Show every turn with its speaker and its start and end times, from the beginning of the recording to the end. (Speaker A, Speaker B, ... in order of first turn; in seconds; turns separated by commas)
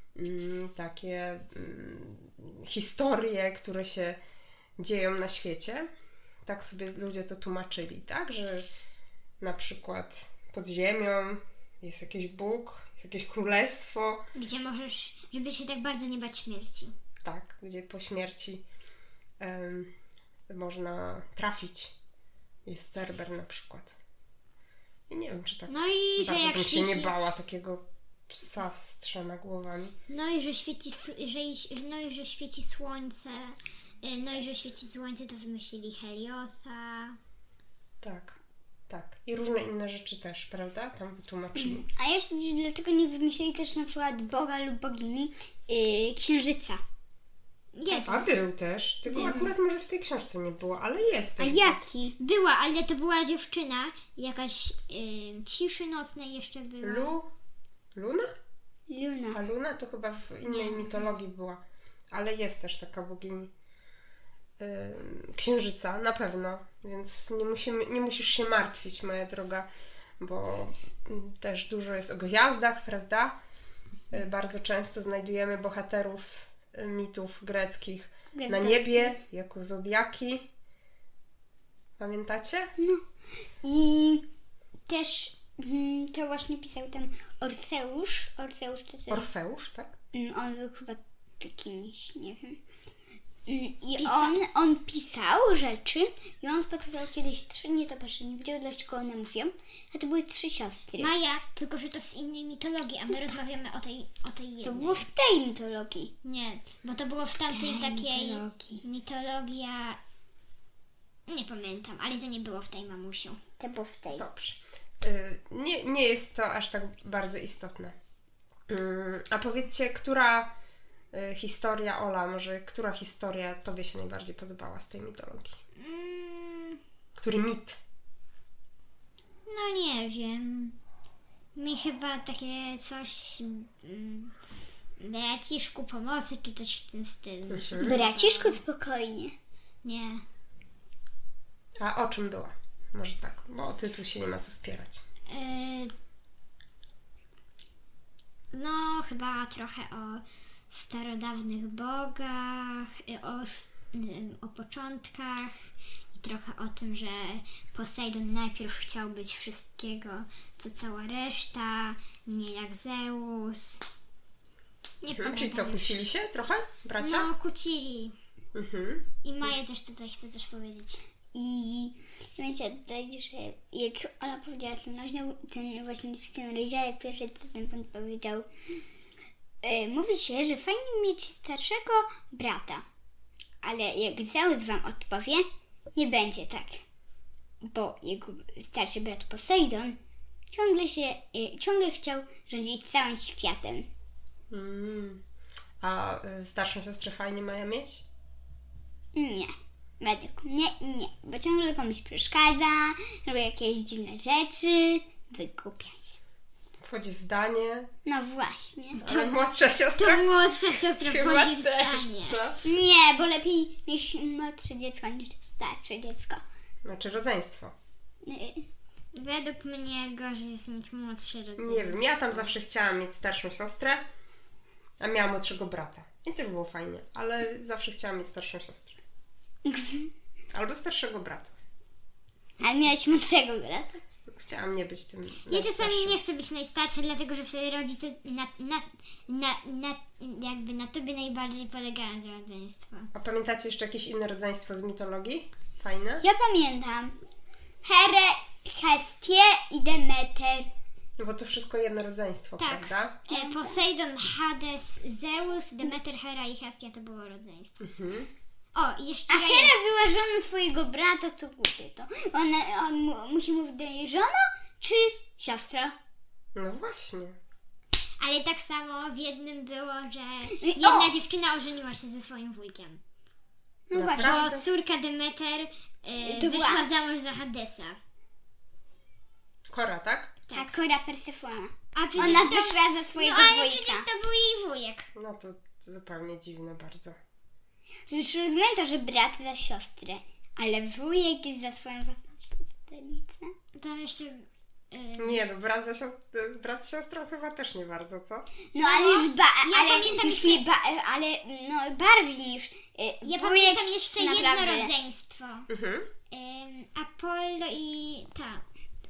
Speaker A: 0.2-4.2, Speaker A: 4.8-5.9, Speaker A: 6.5-8.7, Speaker A: 9.4-14.2, Speaker B: 14.3-16.9, Speaker A: 17.2-18.6, Speaker A: 19.4-19.9, Speaker A: 20.5-21.9, Speaker A: 22.7-24.0, Speaker A: 25.1-30.0, Speaker B: 25.7-27.1, Speaker B: 30.1-37.2, Speaker A: 38.0-41.9, Speaker C: 41.6-46.8, Speaker B: 47.8-48.3, Speaker A: 47.9-51.8, Speaker C: 49.1-49.5, Speaker C: 51.4-52.1, Speaker B: 52.2-57.1, Speaker A: 56.8-57.3, Speaker A: 58.0-58.3, Speaker C: 58.9-59.4, Speaker A: 59.3-61.6, Speaker B: 60.5-61.2, Speaker A: 62.1-63.5, Speaker A: 64.6-69.7, Speaker A: 70.2-73.4, Speaker A: 74.1-80.5, Speaker C: 78.3-79.2, Speaker A: 82.0-82.7, Speaker C: 82.8-83.0, Speaker C: 83.6-84.2, Speaker C: 84.9-89.3, Speaker A: 89.1-89.9, Speaker C: 90.1-92.6, Speaker C: 93.5-101.1, Speaker B: 94.0-94.4, Speaker B: 101.0-105.0, Speaker C: 104.6-106.1, Speaker B: 106.2-110.0, Speaker C: 107.5-108.8, Speaker B: 111.3-113.4, Speaker C: 113.6-114.2, Speaker A: 114.1-118.0, Speaker A: 118.7-120.5, Speaker A: 121.1-125.5, Speaker B: 125.8-126.8, Speaker A: 127.2-127.8, Speaker B: 129.5-130.8, Speaker B: 131.6-134.3, Speaker B: 135.0-138.6, Speaker A: 137.5-138.0, Speaker C: 137.8-139.3, Speaker B: 139.8-140.2, Speaker A: 141.8-145.0, Speaker B: 145.3-145.9, Speaker B: 148.5-155.5, Speaker B: 156.1-163.8, Speaker B: 165.0-165.9, Speaker A: 165.1-167.3, Speaker B: 167.0-168.2, Speaker A: 168.5-169.1, Speaker B: 169.2-171.0, Speaker C: 171.3-178.5, Speaker C: 179.6-182.8, Speaker C: 183.6-186.8, Speaker C: 187.6-190.0, Speaker C: 190.5-193.9, Speaker A: 194.5-195.2, Speaker A: 195.8-198.1, Speaker C: 199.1-206.2, Speaker A: 206.8-207.9, Speaker C: 208.1-209.4, Speaker A: 209.0-210.3, Speaker B: 210.0-212.4, Speaker A: 211.0-212.7, Speaker C: 212.6-216.4, Speaker A: 216.8-217.8, Speaker C: 218.2-218.6, Speaker B: 219.1-222.6, Speaker A: 221.6-224.1, Speaker A: 225.0-229.0, Speaker C: 229.7-230.1, Speaker A: 230.5-231.5, Speaker C: 232.6-234.0, Speaker A: 234.3-236.2, Speaker B: 235.5-243.1, Speaker A: 243.1-246.2, Speaker C: 246.2-247.2, Speaker C: 247.8-250.7, Speaker A: 251.2-253.2, Speaker B: 252.6-258.0, Speaker C: 253.3-253.8, Speaker A: 257.8-258.3, Speaker B: 258.8-259.7, Speaker C: 259.3-265.9, Speaker A: 266.6-267.4, Speaker B: 268.2-273.0, Speaker C: 270.5-271.1, Speaker C: 273.9-274.5, Speaker A: 273.9-274.7, Speaker B: 274.1-278.0, Speaker C: 276.2-276.9, Speaker A: 279.7-280.4, Speaker B: 280.5-280.8, Speaker C: 280.5-284.1, Speaker B: 282.0-285.1, Speaker A: 282.2-282.5, Speaker A: 285.1-287.2, Speaker C: 288.1-293.5, Speaker B: 293.8-295.4, Speaker A: 295.2-298.5, Speaker C: 298.7-304.9, Speaker B: 298.8-300.7, Speaker B: 303.2-305.7, Speaker A: 305.7-306.1, Speaker B: 306.3-308.6